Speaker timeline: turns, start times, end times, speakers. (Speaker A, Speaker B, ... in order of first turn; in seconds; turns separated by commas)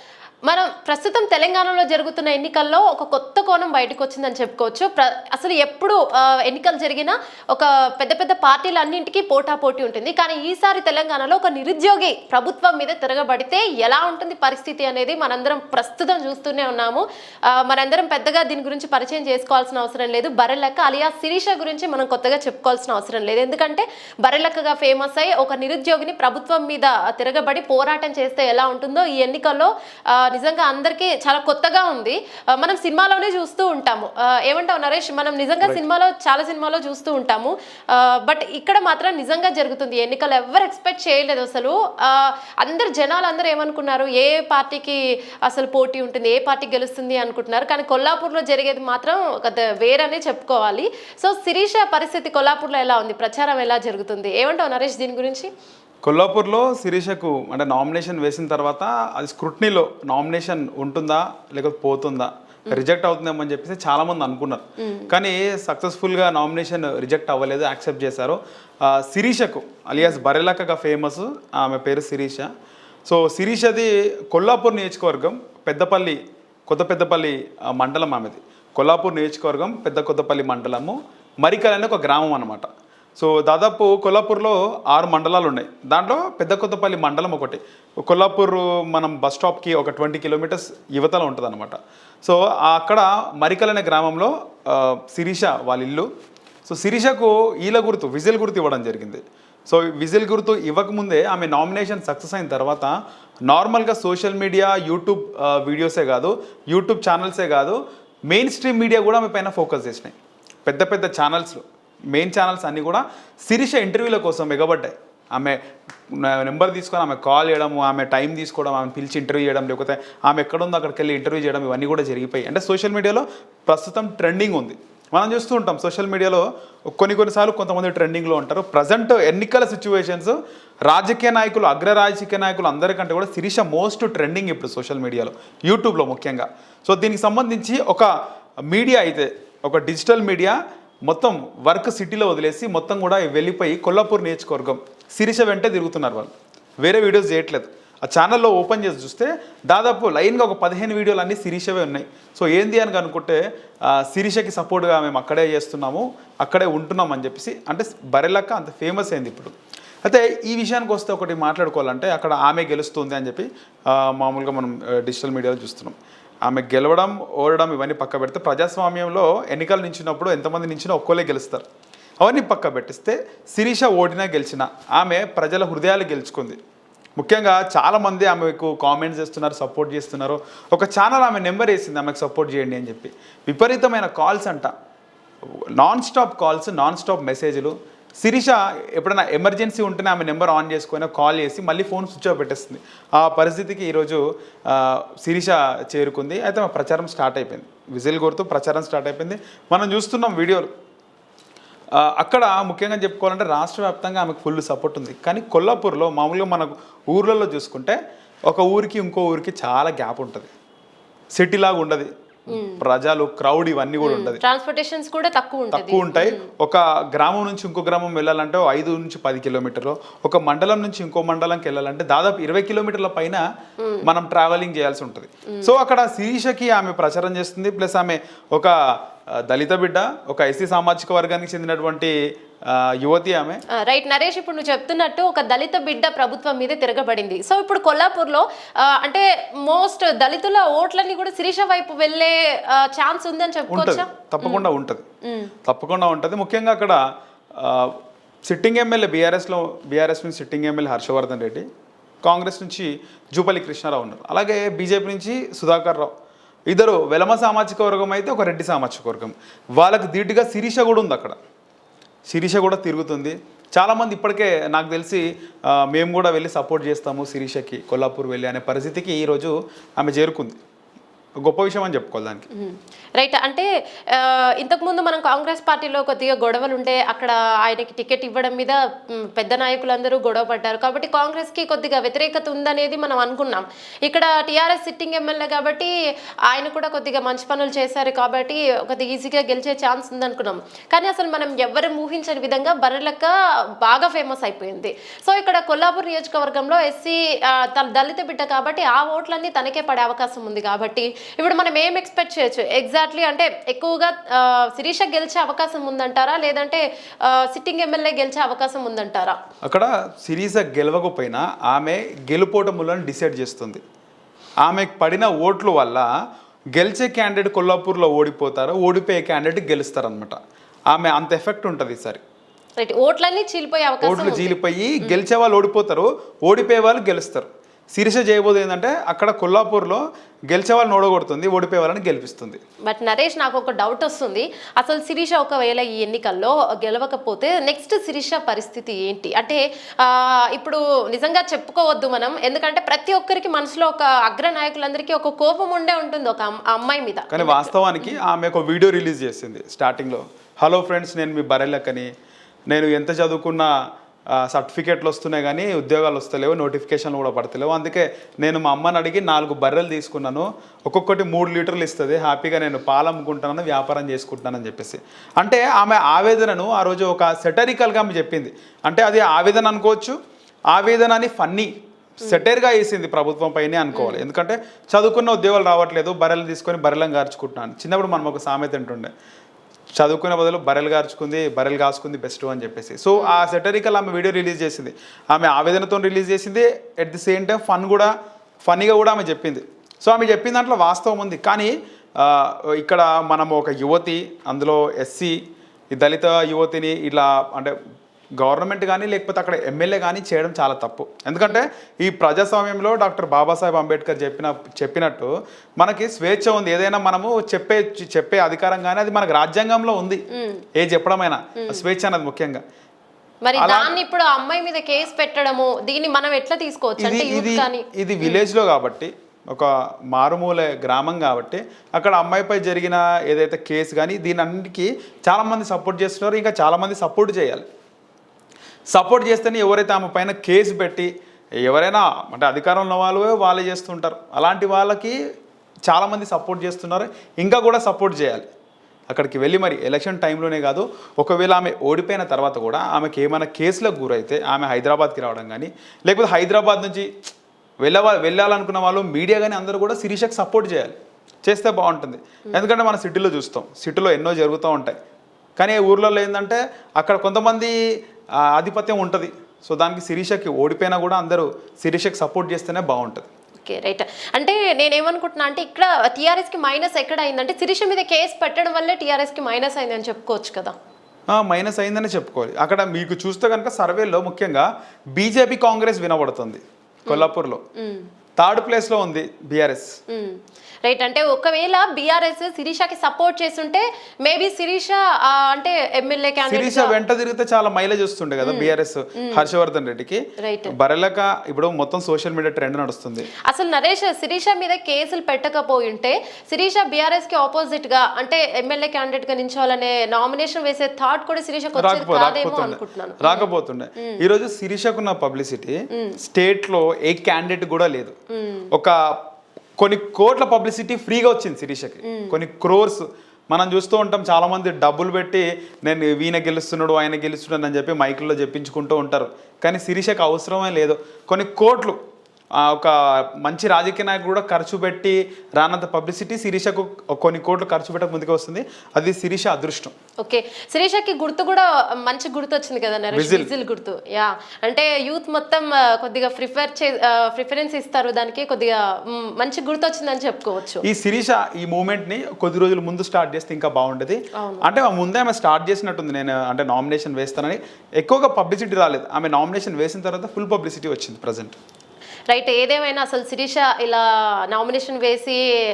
Speaker A: 0.4-55.5, Speaker B: 56.0-72.5, Speaker A: 64.8-65.1, Speaker A: 70.0-70.2, Speaker B: 73.0-96.1, Speaker B: 96.6-102.9, Speaker B: 103.5-107.8, Speaker B: 108.3-138.1, Speaker B: 138.7-171.6, Speaker B: 172.2-176.6, Speaker B: 177.2-184.7, Speaker B: 185.8-200.7, Speaker B: 201.9-208.0, Speaker B: 208.5-210.5, Speaker B: 211.3-214.4, Speaker A: 212.5-212.8, Speaker A: 214.0-216.4, Speaker B: 215.7-223.4, Speaker A: 223.8-224.1, Speaker B: 224.0-228.7, Speaker B: 229.3-232.1, Speaker B: 232.7-233.6, Speaker A: 233.8-244.7, Speaker B: 243.7-245.0, Speaker A: 245.2-245.5, Speaker B: 245.6-247.0, Speaker B: 247.6-251.7, Speaker B: 252.2-256.1, Speaker B: 256.7-261.4, Speaker B: 262.3-270.6, Speaker B: 271.4-272.4, Speaker A: 272.5-285.9, Speaker A: 286.5-309.4, Speaker B: 309.6-313.8, Speaker B: 314.6-316.1, Speaker B: 316.7-320.4, Speaker B: 320.9-322.2, Speaker A: 322.8-325.2, Speaker B: 324.0-332.6, Speaker A: 332.9-348.2, Speaker B: 347.3-352.1, Speaker B: 352.7-353.7, Speaker B: 354.4-370.1, Speaker B: 370.7-371.7, Speaker B: 372.2-379.1, Speaker A: 372.2-372.5, Speaker A: 373.9-374.2, Speaker B: 379.9-388.1, Speaker A: 383.1-383.4, Speaker B: 388.6-395.4, Speaker B: 395.9-397.8, Speaker B: 398.4-410.2, Speaker A: 410.3-410.6, Speaker B: 410.8-412.6, Speaker A: 413.4-418.4, Speaker B: 413.6-413.9, Speaker B: 417.0-427.6, Speaker B: 428.9-431.1, Speaker B: 431.6-435.2, Speaker B: 435.9-438.4, Speaker B: 439.1-447.1, Speaker B: 447.8-454.9, Speaker B: 455.6-457.8, Speaker B: 458.4-463.3, Speaker A: 463.6-470.7, Speaker B: 471.3-477.6, Speaker A: 477.1-478.1, Speaker B: 478.4-479.9, Speaker A: 480.1-487.0, Speaker B: 486.5-493.3, Speaker A: 488.4-489.5, Speaker A: 490.4-490.7, Speaker A: 493.5-504.1, Speaker B: 501.8-508.1, Speaker A: 508.4-508.7, Speaker B: 509.8-522.0, Speaker A: 512.0-512.3, Speaker B: 522.6-529.9, Speaker A: 530.2-540.8, Speaker B: 533.1-533.5, Speaker B: 540.8-551.5, Speaker A: 544.4-544.7, Speaker A: 552.3-555.4